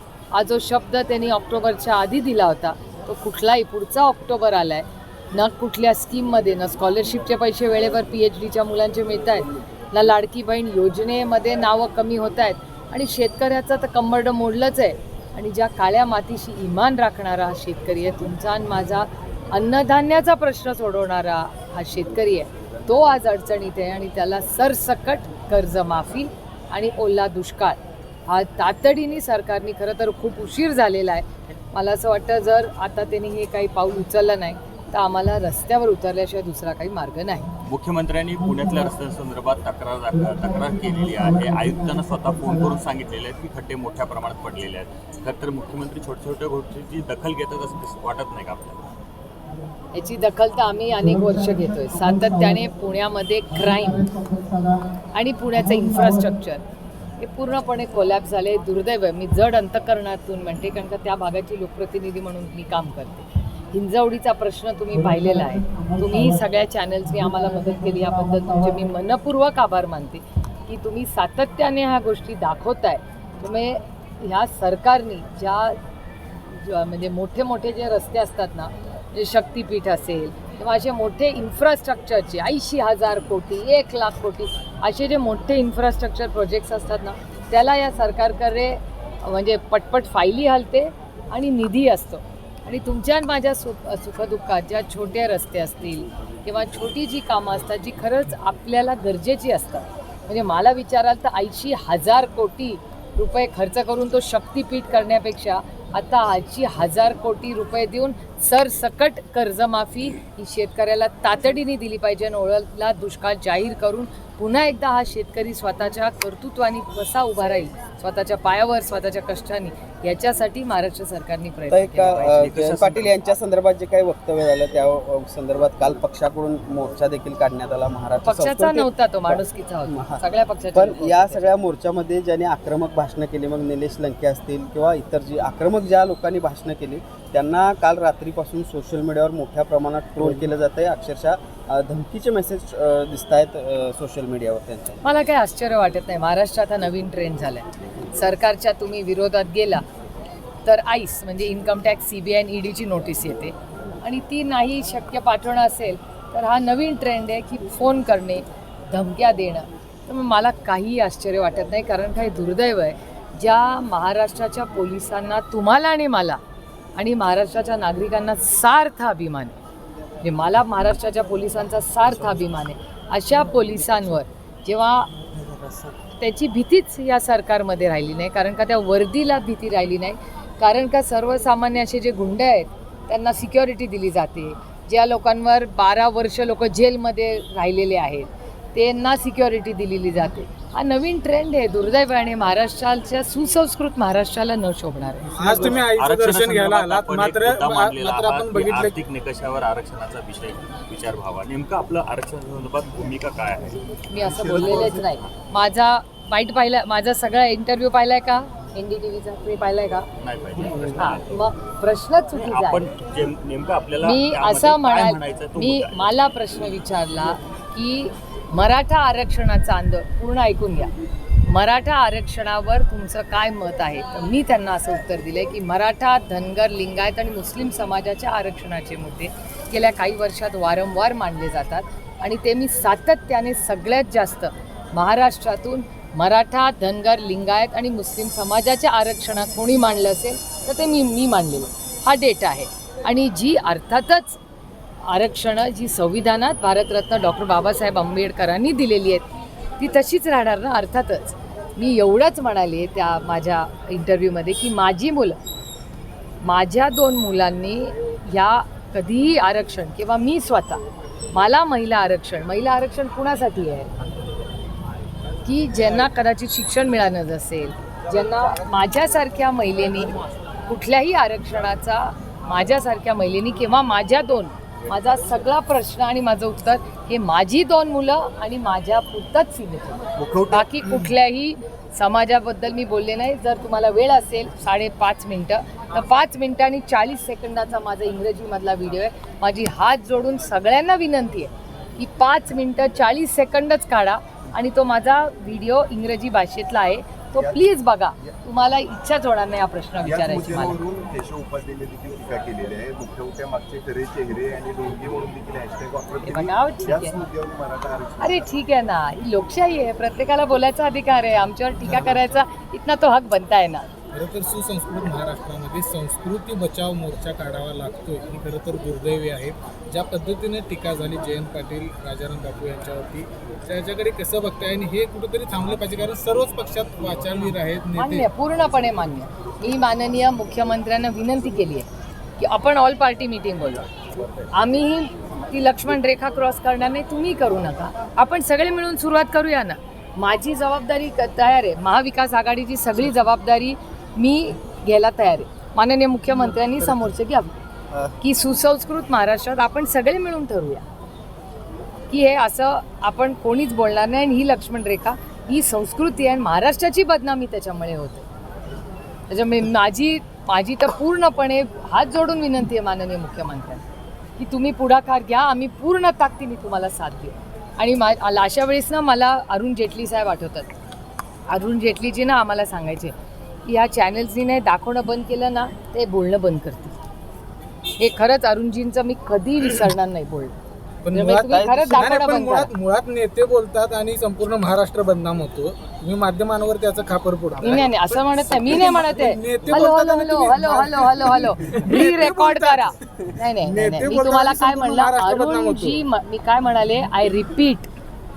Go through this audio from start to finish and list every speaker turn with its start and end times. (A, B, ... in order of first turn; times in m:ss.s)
0:00.3-0:37.5 A
0:37.6-0:48.8 B
0:49.9-0:54.3 A
0:55.1-0:56.6 A
0:57.2-1:15.8 A
1:16.3-2:02.4 A
2:01.7-2:10.2 C
2:02.1-2:03.1 B
2:08.2-2:11.5 A
2:10.7-2:25.0 C
2:25.0-2:29.8 A
2:30.6-2:46.4 A
2:47.0-2:49.5 A
2:50.2-2:55.1 A
2:56.2-3:15.8 A
3:15.3-3:19.0 D
3:16.0-3:25.3 B
3:24.1-3:30.1 A
3:24.2-3:25.0 E
3:30.2-3:31.3 B
3:31.0-3:32.9 A
3:32.3-3:36.1 B
3:34.0-3:40.9 A
3:41.4-4:04.4 A
4:05.0-4:09.2 A
4:09.8-4:15.4 A
4:16.4-4:20.8 A
4:21.3-4:23.9 A
4:25.4-4:30.1 A
4:30.7-5:00.8 A
4:40.2-4:40.6 E
4:57.4-4:57.7 E
5:00.0-5:08.5 E
5:06.2-5:07.2 A
5:08.2-5:13.9 A
5:14.1-5:28.3 D
5:28.0-5:31.9 A
5:32.4-5:33.9 A
5:34.5-5:47.5 A
5:48.2-5:50.8 A
5:52.1-5:58.2 A
5:59.3-6:03.8 A
6:04.4-6:10.7 A
6:11.5-6:13.1 A
6:13.7-6:16.9 A
6:18.0-6:20.5 A
6:21.0-6:36.0 D
6:21.1-6:22.7 A
6:21.2-6:22.0 C
6:27.6-6:37.9 A